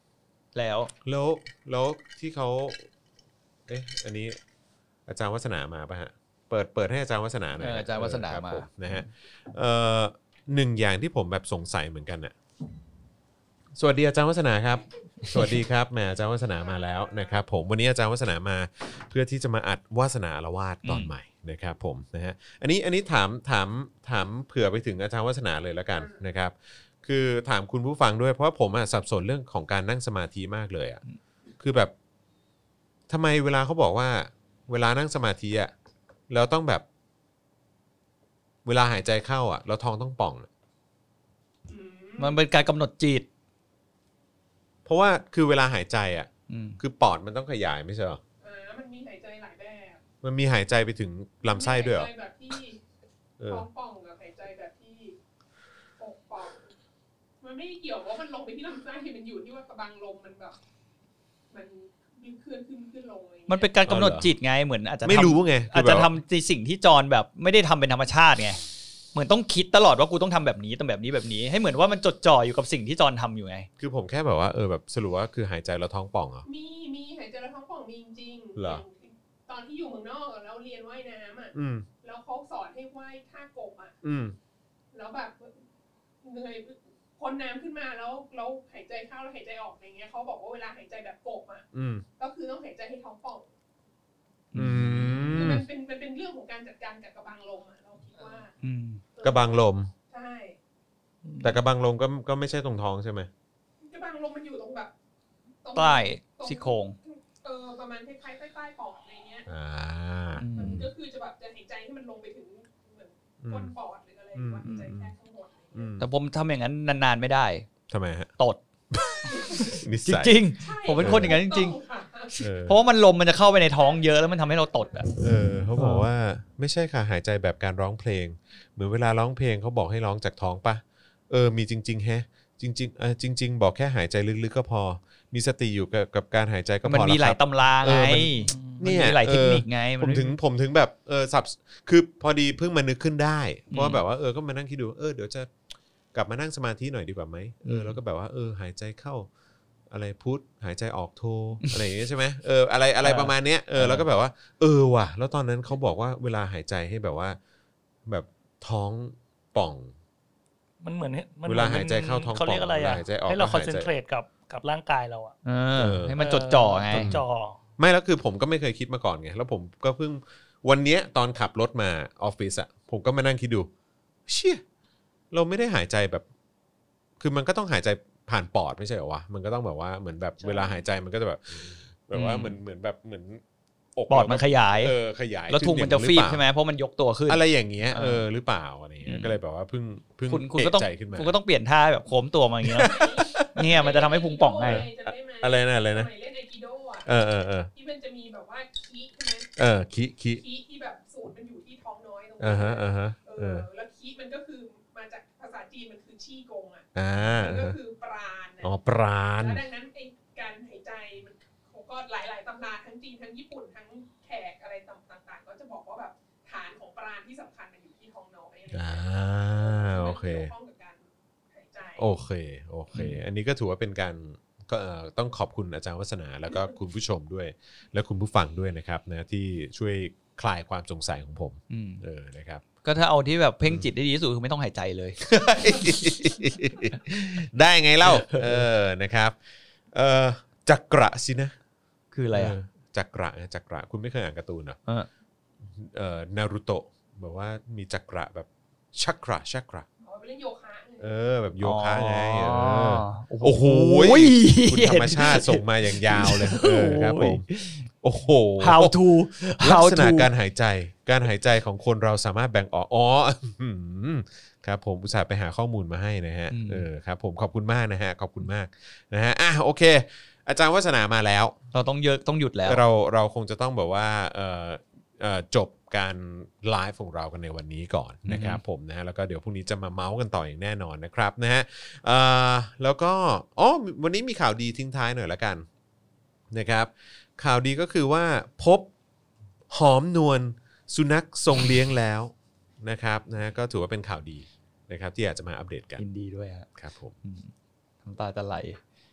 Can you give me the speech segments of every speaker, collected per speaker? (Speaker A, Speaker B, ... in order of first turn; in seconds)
Speaker A: 0.5-0.9, 7.6-8.7, 20.8-21.1, 42.2-43.2, 46.5-46.8, 63.5-68.6, 69.1-73.7, 94.5-95.5, 98.6-99.0, 105.7-107.0, 110.4-110.8, 116.0-117.7, 119.2-121.8, 122.4-125.1, 136.8-140.3, 143.7-144.0, 147.6-147.9, 153.0-154.0, 165.4-167.2, 182.1-182.5, 184.1-184.9, 185.5-188.2, 189.0-189.3, 190.3-192.9, 193.4-194.8, 222.9-223.2, 231.7-232.0, 232.8-235.2, 238.1-238.6, 242.1-242.6, 251.6-257.9, 258.6-260.3, 266.5-266.8, 271.7-272.8, 278.2-278.6, 296.0-296.7, 297.2-297.5, 298.0-298.8
Speaker B: 1.0-2.8, 3.7-4.4, 5.1-12.3, 13.7-31.0, 31.6-31.9, 33.1-35.7, 36.3-36.8, 38.6-40.5, 44.9-48.2, 50.2-52.1, 53.4-53.6, 63.9-64.3, 65.0-66.1, 73.8-76.4, 78.5-78.8, 81.5-81.8, 84.0-84.3, 91.7-92.0, 94.5-95.6, 99.2-99.9, 101.4-103.3, 109.5-110.9, 113.4-113.7, 114.3-115.1, 115.7-116.0, 117.9-118.3, 118.9-120.4, 120.9-121.4, 122.4-122.8, 125.2-145.5, 146.1-149.3, 149.9-157.4, 158.1-159.9, 161.4-163.9, 165.7-166.2, 166.9-167.2, 167.8-173.7, 174.3-174.6, 175.3-176.2, 177.2-183.4, 183.9-186.4, 187.3-191.3, 192.6-193.8, 194.6-196.1, 197.1-197.7, 199.6-200.4, 202.4-203.7, 206.9-207.8, 208.6-209.6, 218.7-220.5, 222.0-232.6, 235.2-239.3, 239.9-241.5, 242.3-244.8, 245.7-249.8, 251.0-258.9, 259.6-271.5, 272.6-285.6, 286.5-288.9, 289.7-296.0, 296.8-297.1
Speaker C: 16.7-17.4, 41.7-42.4, 48.4-50.0, 51.4-52.8, 53.5-55.2, 56.0-56.7, 57.4-60.5, 61.5-63.7, 76.4-83.9, 84.9-85.6, 86.2-91.7, 92.2-93.5, 95.3-98.5, 99.2-99.5, 100.1-100.6, 103.8-104.9, 105.6-109.5, 110.6-116.0, 120.6-122.4, 123.7-125.0, 180.4-180.7, 192.8-197.1, 197.7-199.5, 200.4-208.7, 209.4-222.1, 250.0-251.1
Speaker D: 101.2-101.6, 138.5-138.8, 160.8-165.4, 166.2-167.6